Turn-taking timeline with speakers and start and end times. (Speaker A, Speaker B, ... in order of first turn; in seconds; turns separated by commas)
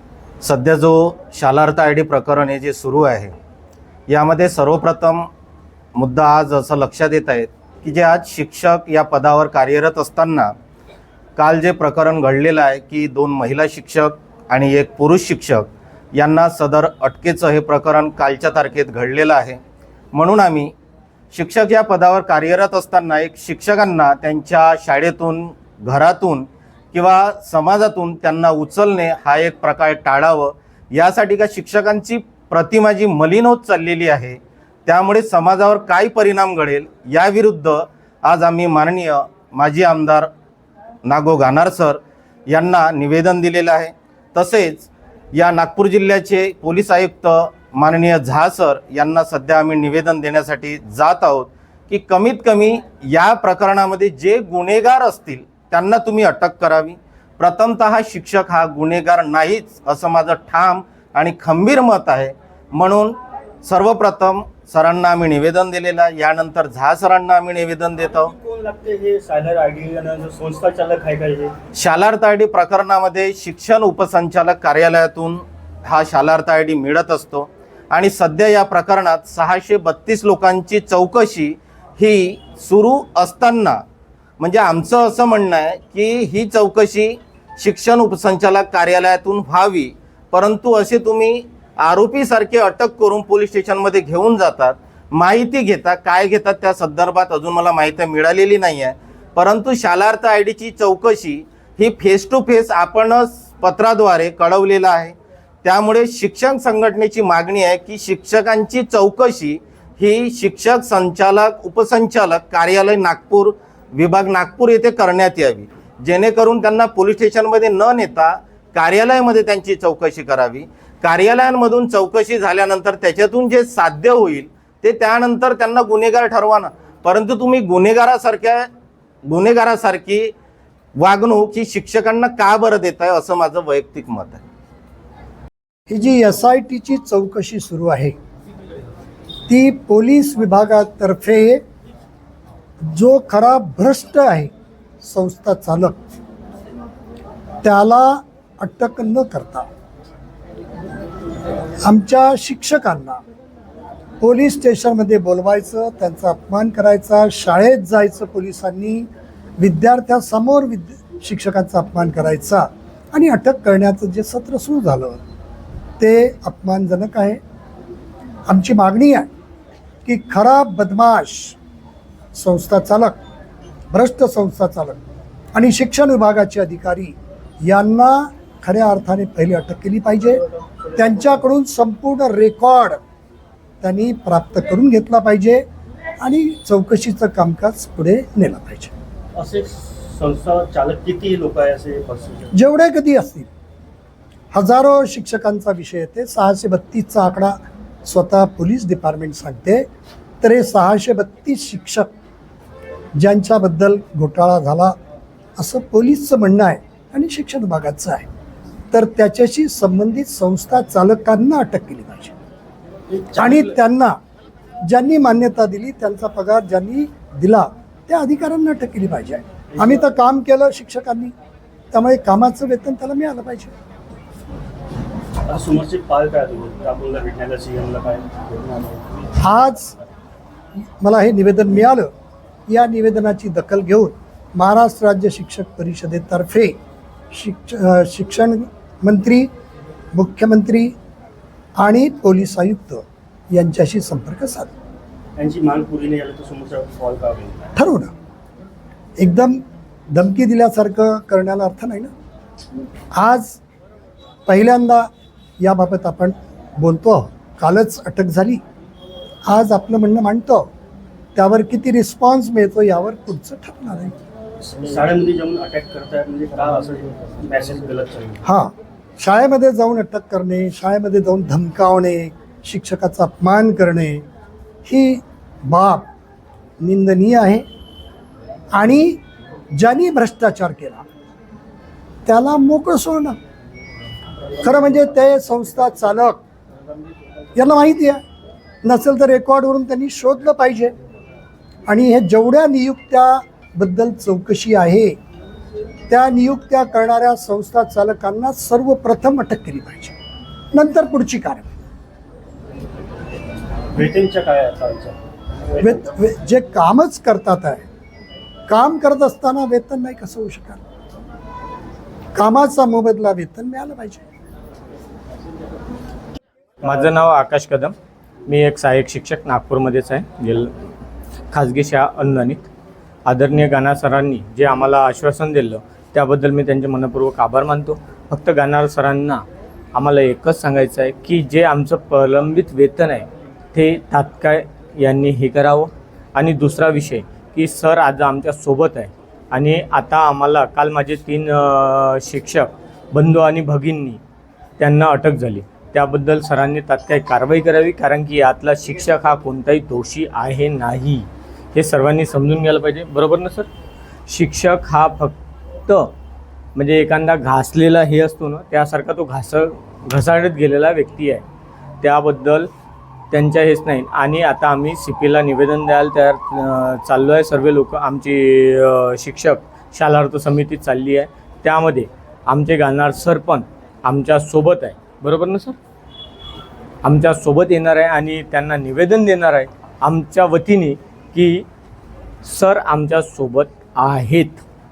Speaker A: 0.4-3.3, Speaker A: 4.1-5.3, Speaker A: 5.9-10.5, Speaker A: 11.4-19.6, Speaker A: 20.1-20.7, Speaker A: 21.3-40.3, Speaker A: 41.0-68.3, Speaker B: 68.3-71.5, Speaker A: 71.8-83.8, Speaker A: 84.4-128.7, Speaker A: 129.3-130.3, Speaker A: 130.9-134.4, Speaker C: 135.9-138.1, Speaker C: 139.5-141.6, Speaker C: 142.8-144.5, Speaker C: 145.0-146.0, Speaker C: 147.6-149.7, Speaker C: 151.8-153.2, Speaker C: 154.2-165.2, Speaker C: 166.0-167.4, Speaker C: 168.5-169.3, Speaker C: 170.0-171.6, Speaker C: 172.3-173.1, Speaker C: 173.9-175.0, Speaker C: 175.5-180.4, Speaker C: 180.9-183.0, Speaker C: 183.8-185.6, Speaker C: 186.2-188.9, Speaker B: 189.3-192.5, Speaker C: 192.5-193.5, Speaker C: 194.5-199.9, Speaker C: 200.4-202.1, Speaker C: 203.2-204.9, Speaker C: 205.6-208.3, Speaker C: 208.9-212.3, Speaker B: 213.1-213.7, Speaker C: 213.4-214.2, Speaker C: 214.8-221.3, Speaker B: 219.7-220.0, Speaker C: 221.9-223.7, Speaker B: 225.4-229.3, Speaker C: 229.4-229.9, Speaker C: 231.0-232.1, Speaker C: 232.7-236.8, Speaker C: 237.3-239.5, Speaker C: 240.1-240.9, Speaker C: 241.8-244.7, Speaker B: 245.3-247.6, Speaker C: 247.8-248.1, Speaker C: 249.2-249.6, Speaker C: 250.1-252.1, Speaker C: 253.2-253.6, Speaker C: 254.5-255.1, Speaker C: 255.6-258.6, Speaker C: 259.5-260.7, Speaker C: 261.4-264.1, Speaker B: 264.6-268.4, Speaker C: 268.4-274.2, Speaker C: 274.8-276.1, Speaker C: 276.8-277.6, Speaker C: 278.7-279.2, Speaker C: 279.8-281.0, Speaker C: 282.2-283.4, Speaker C: 284.6-286.4, Speaker C: 287.6-288.2, Speaker C: 288.8-290.9, Speaker C: 291.9-295.1, Speaker C: 296.1-300.1, Speaker C: 300.7-301.7, Speaker B: 303.9-305.2, Speaker C: 305.8-307.9, Speaker C: 308.7-310.8, Speaker C: 312.3-314.2, Speaker D: 316.8-317.9, Speaker D: 318.5-320.7, Speaker D: 321.5-322.7, Speaker D: 323.2-344.2, Speaker D: 344.8-353.7, Speaker D: 354.3-356.1, Speaker D: 356.8-361.4, Speaker D: 362.0-362.7, Speaker D: 363.3-375.8, Speaker D: 377.0-381.6, Speaker D: 382.4-384.6